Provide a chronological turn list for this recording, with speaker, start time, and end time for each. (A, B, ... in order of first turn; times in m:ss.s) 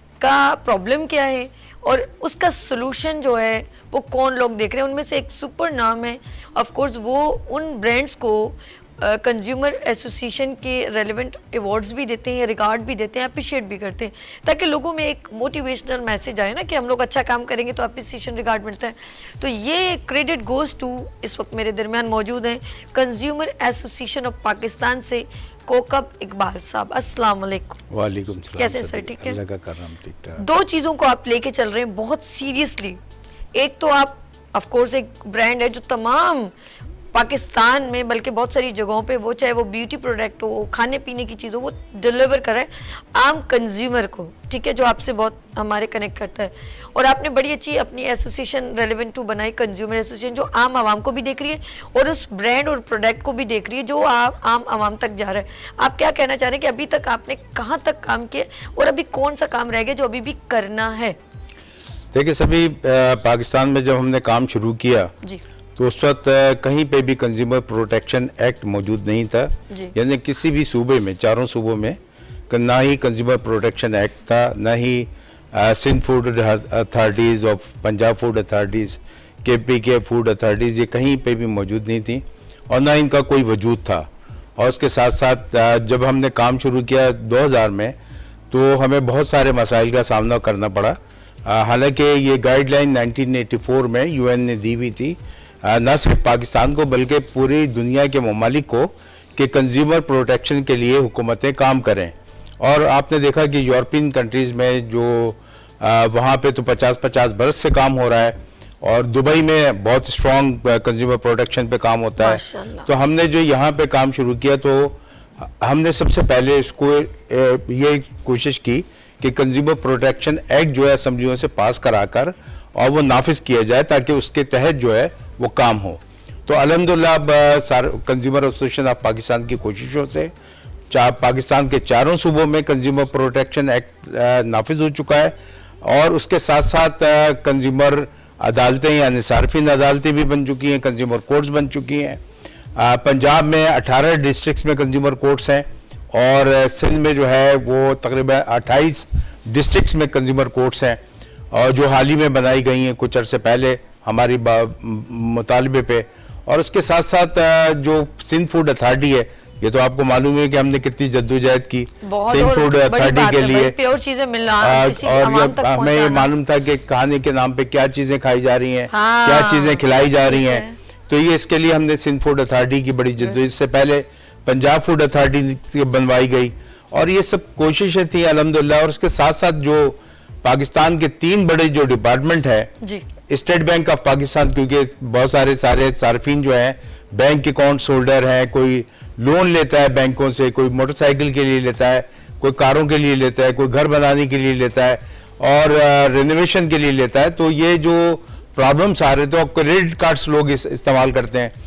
0:00.2-0:27.8 A
0:27.9-0:30.4 B
0:28.6-0:29.4 A
0:30.4-0:33.0 A
0:33.6-0:36.5 A
0:37.1-1:01.2 A
1:02.1-1:05.1 B
1:05.8-1:12.0 B
1:12.5-1:28.0 B
1:28.5-2:10.3 B
1:52.2-1:52.9 A
2:10.9-2:22.2 B
2:22.8-2:43.8 B
2:42.0-2:46.3 A
2:44.6-3:02.7 B
2:48.9-2:50.8 A
3:03.3-3:21.5 B